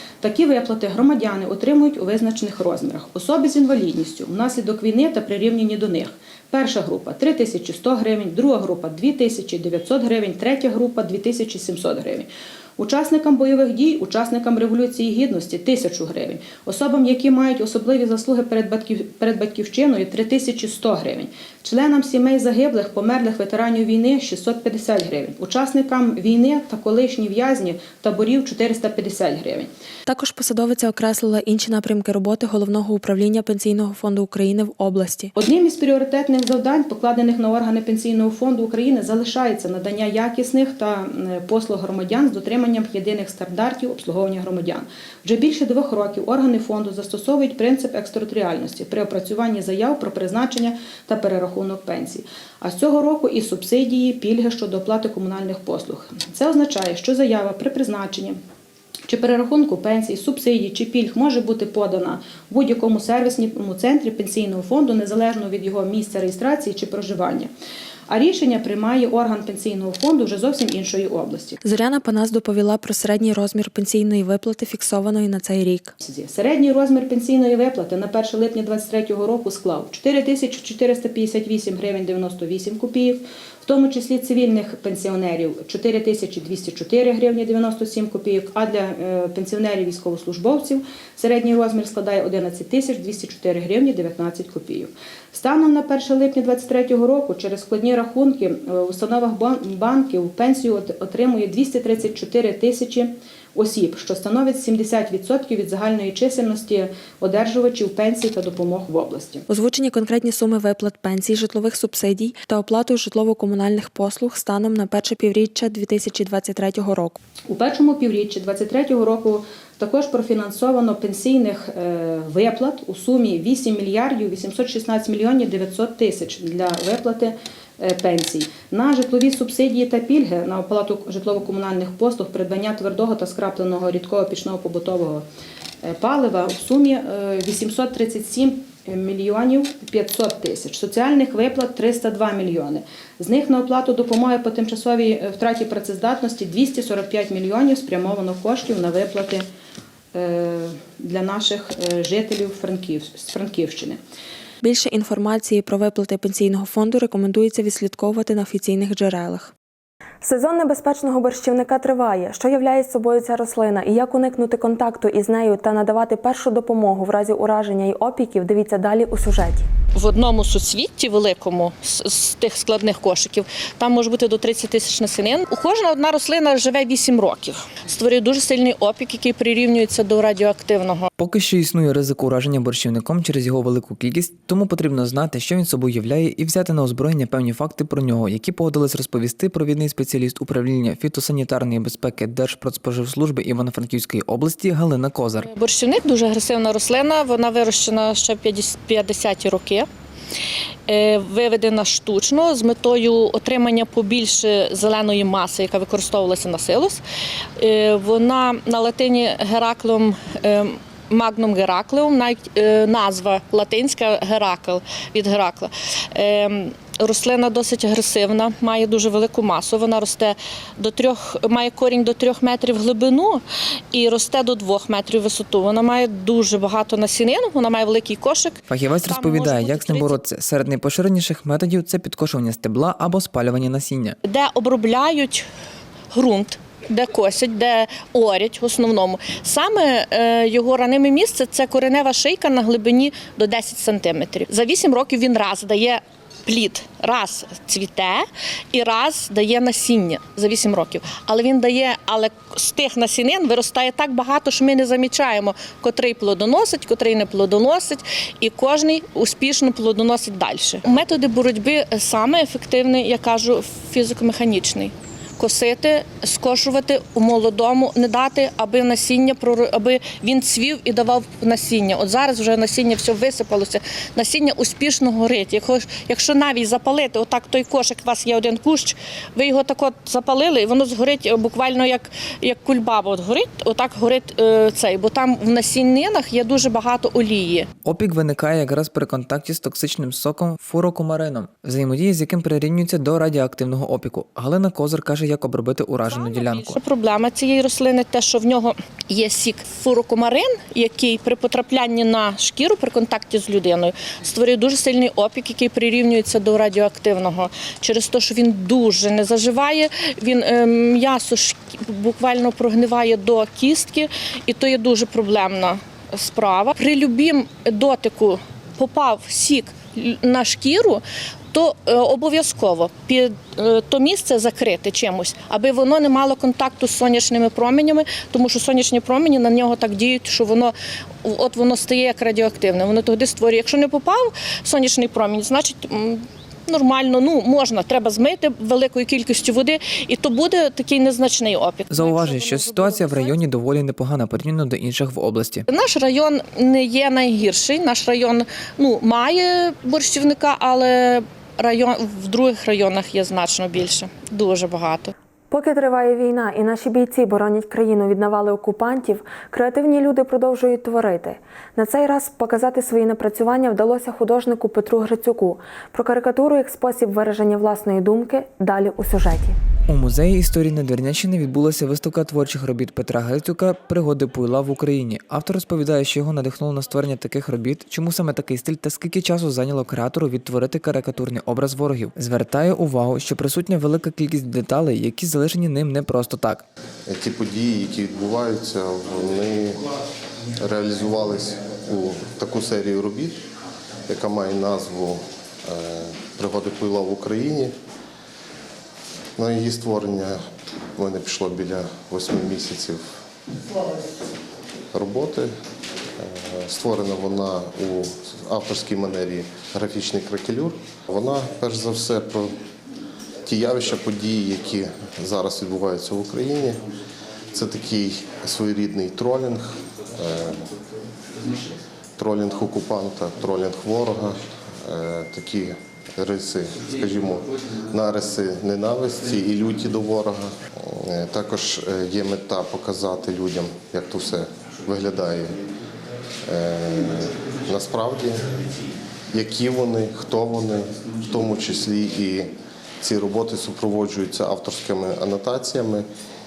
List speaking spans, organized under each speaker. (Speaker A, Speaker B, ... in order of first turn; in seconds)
Speaker A: 0.2-29.7, 35.4-58.4, 59.1-67.5, 68.1-71.6, 76.0-109.5, 117.5-135.2, 135.8-149.5, 150.1-154.0
Speaker B: 30.1-35.3, 71.6-75.9, 109.5-117.2, 154.6-159.5, 160.2-169.7, 355.5-369.6
Speaker C: 169.9-181.1, 195.5-199.9, 200.9-207.0, 207.6-230.2, 234.2-235.5, 236.1-287.7, 296.1-343.4, 345.7-355.1
Speaker D: 181.2-195.5, 228.7-234.2, 287.9-296.8, 341.9-345.6, 369.9-386.6
Speaker E: 387.1-389.8, 390.6-393.4, 394.1-397.7, 399.4-400.4, 401.0-403.0, 404.9-405.5, 406.2-412.5, 413.5-416.8, 417.5-420.6, 422.2-435.6, 436.5-438.4, 439.3-446.1